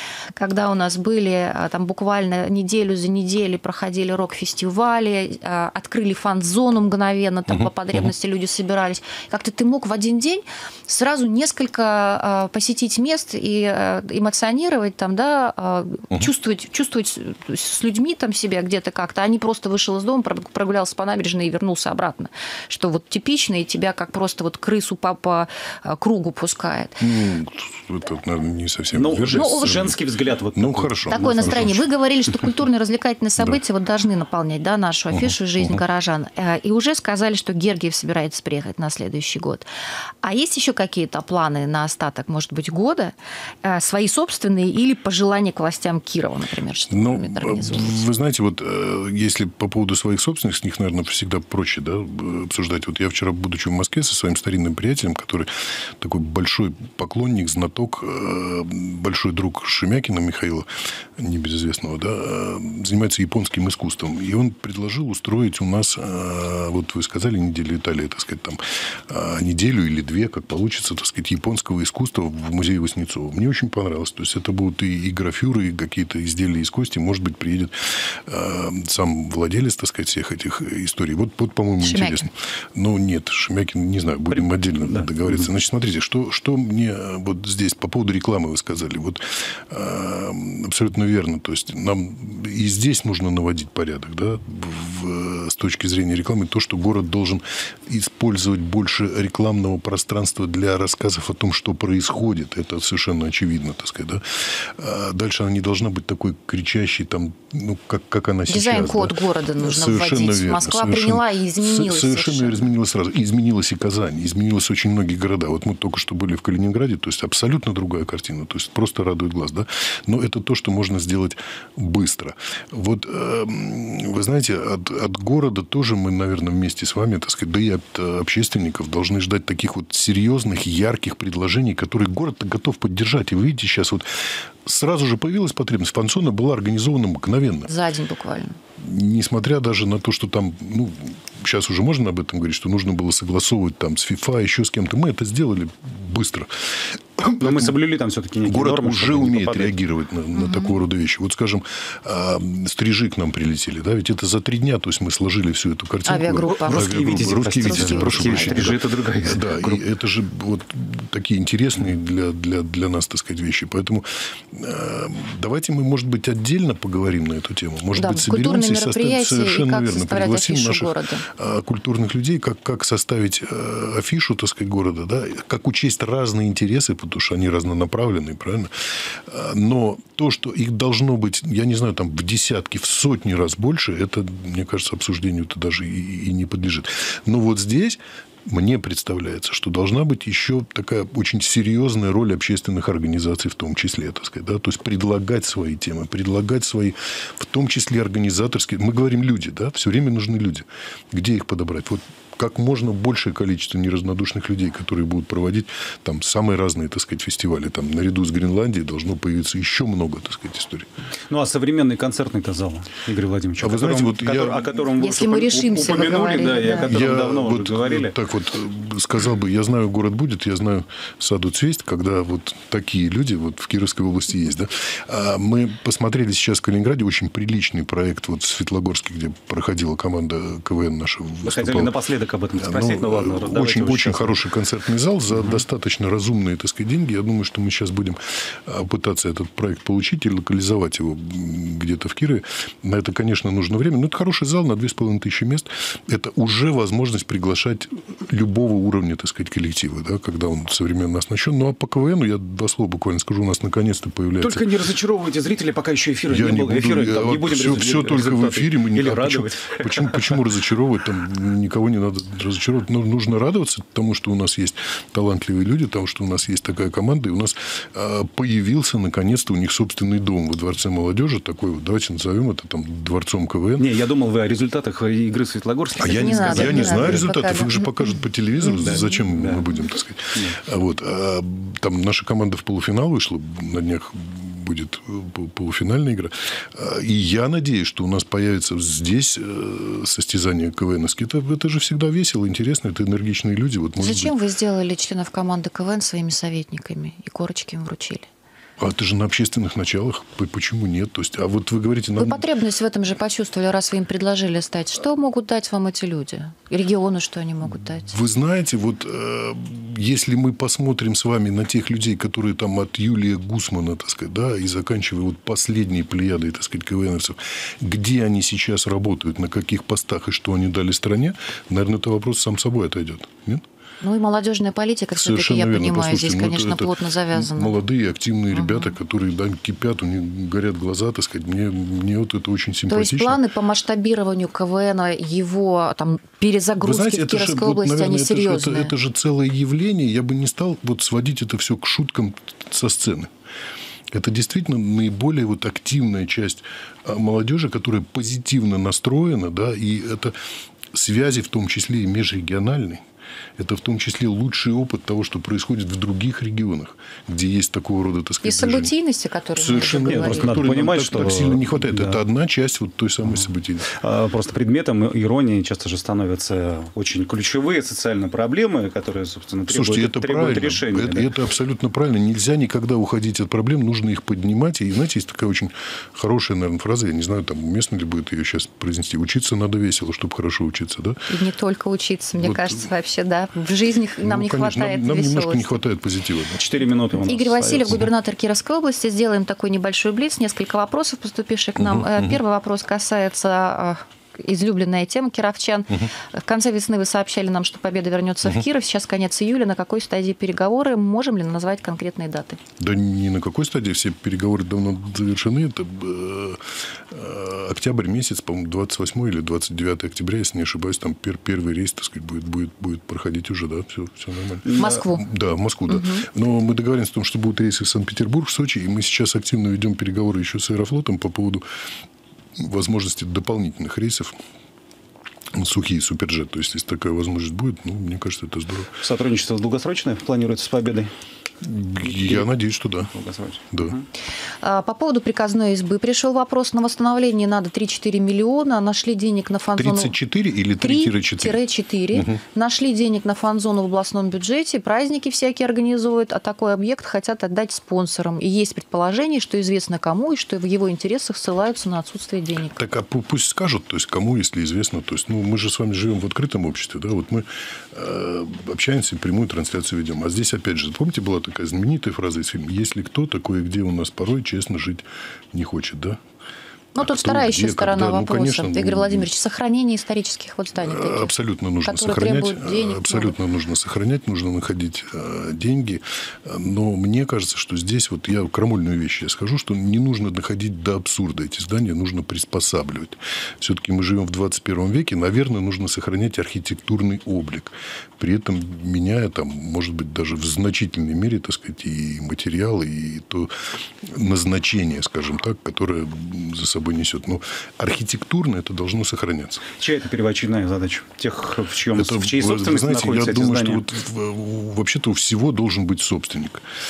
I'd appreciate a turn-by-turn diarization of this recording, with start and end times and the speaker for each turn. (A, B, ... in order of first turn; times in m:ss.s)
0:00.4-0:27.0 A
0:07.5-0:08.1 B
0:27.0-0:30.0 B
0:28.9-0:31.8 C
0:29.3-0:29.9 A
0:30.5-0:31.8 B
0:31.1-0:39.6 A
0:35.1-0:35.8 B
0:40.2-0:48.0 A
0:46.9-2:17.7 B
1:21.8-1:22.2 A
1:24.3-1:25.4 C
1:48.5-1:52.7 A
2:17.6-2:18.6 A
2:18.8-2:27.8 B
2:27.4-2:29.7 C
2:28.4-3:30.9 B
2:30.3-2:30.8 A
2:36.0-2:38.7 A
2:36.5-2:39.8 C
2:47.9-2:51.2 A
3:31.3-3:38.1 C
3:33.6-3:34.7 B
3:35.0-3:37.0 A
3:36.8-3:51.9 B
3:51.4-3:54.4 C
3:52.6-4:14.6 B
3:55.3-3:55.6 C
4:14.4-4:20.4 C
4:16.3-4:33.9 B
4:33.8-4:37.3 C
4:36.0-4:54.3 B
4:36.1-4:37.9 A
4:38.7-4:39.6 C
4:54.0-4:58.3 A
4:58.8-5:02.4 B
5:02.2-5:08.1 A
5:08.0-5:23.6 B
5:24.0-5:27.8 A
5:25.1-5:33.4 B
5:28.5-5:28.9 A
5:32.9-5:38.9 A
5:36.8-5:43.3 B
5:44.1-5:50.4 B
5:50.9-5:53.0 B
5:53.6-5:58.9 B
5:58.4-6:00.6 A
5:59.6-6:03.9 B
6:00.0-6:02.2 C
6:03.4-6:11.3 C
6:09.7-6:21.2 B
6:21.3-6:25.8 A
6:22.4-6:22.8 B
6:24.2-6:26.6 B
6:26.5-6:28.0 C
6:27.2-6:42.6 A
6:31.8-6:32.4 B
6:42.8-7:01.6 B
6:54.6-6:55.0 C
6:54.8-6:55.2 A
6:55.9-6:56.3 A
7:02.5-7:04.4 B
7:05.5-7:09.0 B
7:09.0-7:11.1 C
7:11.6-7:13.1 B
7:12.0-7:12.5 C
7:13.1-7:14.0 C
7:13.7-7:14.0 B
7:14.6-7:20.1 A
7:19.8-7:22.4 B
7:20.8-7:32.8 A
7:32.7-7:46.2 B
7:46.9-7:53.3 A
7:47.0-7:49.3 B
7:50.8-8:13.5 B
8:14.0-8:19.7 B
8:19.8-8:23.8 C
8:21.9-8:26.6 B